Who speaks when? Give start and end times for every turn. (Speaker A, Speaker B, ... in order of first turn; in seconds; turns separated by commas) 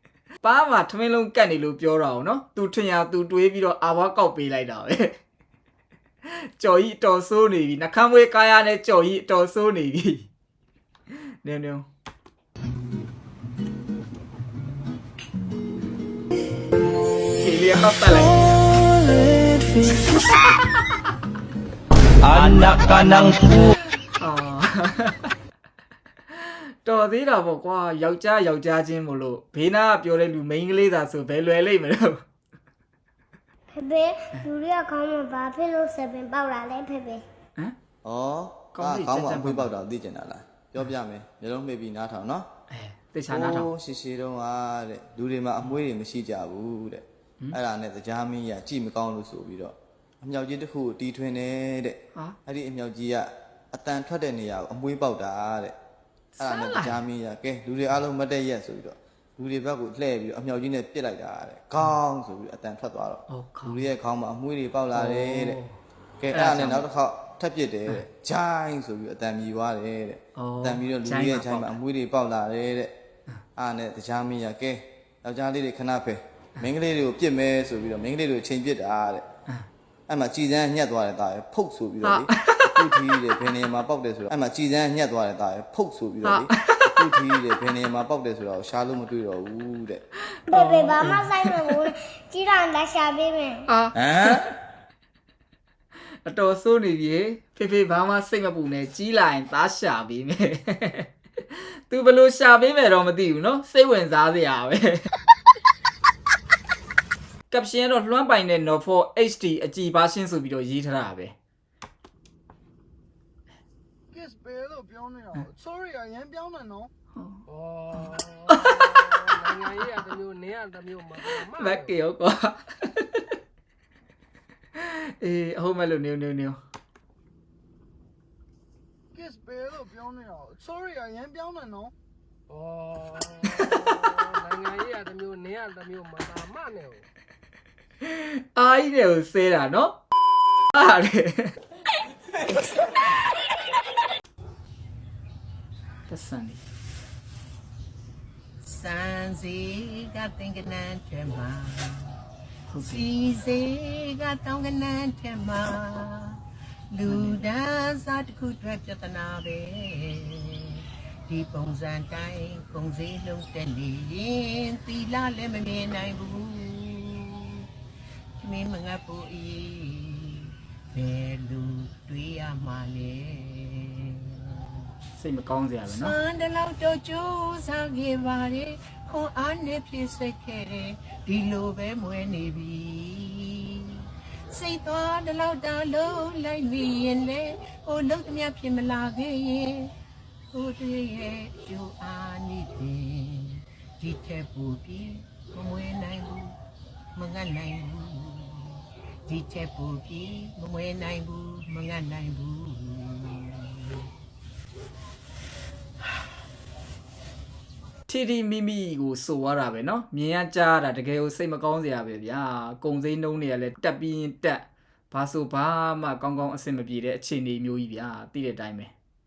Speaker A: 0.4-5.2, Speaker A: 6.3-10.3, Speaker A: 11.4-11.9, Speaker A: 17.4-18.6, Speaker B: 18.4-20.0, Speaker B: 22.2-23.6, Speaker A: 24.2-25.3, Speaker A: 26.3-32.2, Speaker C: 33.7-37.2, Speaker D: 38.0-42.5, Speaker A: 38.8-39.7, Speaker A: 42.7-43.7, Speaker D: 43.3-55.7, Speaker A: 56.4-57.0, Speaker D: 56.4-65.6, Speaker A: 63.3-63.8, Speaker A: 65.0-65.7, Speaker D: 66.2-72.9, Speaker A: 66.3-66.8, Speaker A: 70.4-71.8, Speaker D: 73.6-79.3, Speaker D: 80.1-90.0, Speaker A: 82.0-82.9, Speaker A: 86.2-87.0, Speaker C: 90.5-93.7, Speaker A: 90.5-91.8, Speaker A: 93.7-94.5, Speaker D: 93.9-94.5, Speaker A: 96.2-101.1, Speaker A: 101.9-105.0, Speaker A: 107.5-111.3, Speaker E: 114.2-116.9, Speaker A: 117.2-119.2, Speaker F: 117.5-122.0, Speaker A: 121.3-123.2, Speaker A: 124.8-126.6, Speaker E: 129.2-131.9, Speaker F: 132.5-137.1, Speaker A: 138.0-140.0, Speaker A: 140.7-141.6, Speaker A: 146.1-146.6, Speaker G: 148.6-152.2, Speaker A: 152.7-153.1, Speaker G: 152.8-156.4, Speaker G: 156.9-167.7, Speaker A: 157.1-157.4, Speaker G: 168.4-174.6, Speaker A: 175.2-176.2, Speaker G: 175.9-184.0, Speaker G: 184.5-189.9, Speaker G: 190.5-196.5, Speaker G: 197.2-204.0, Speaker A: 208.1-218.9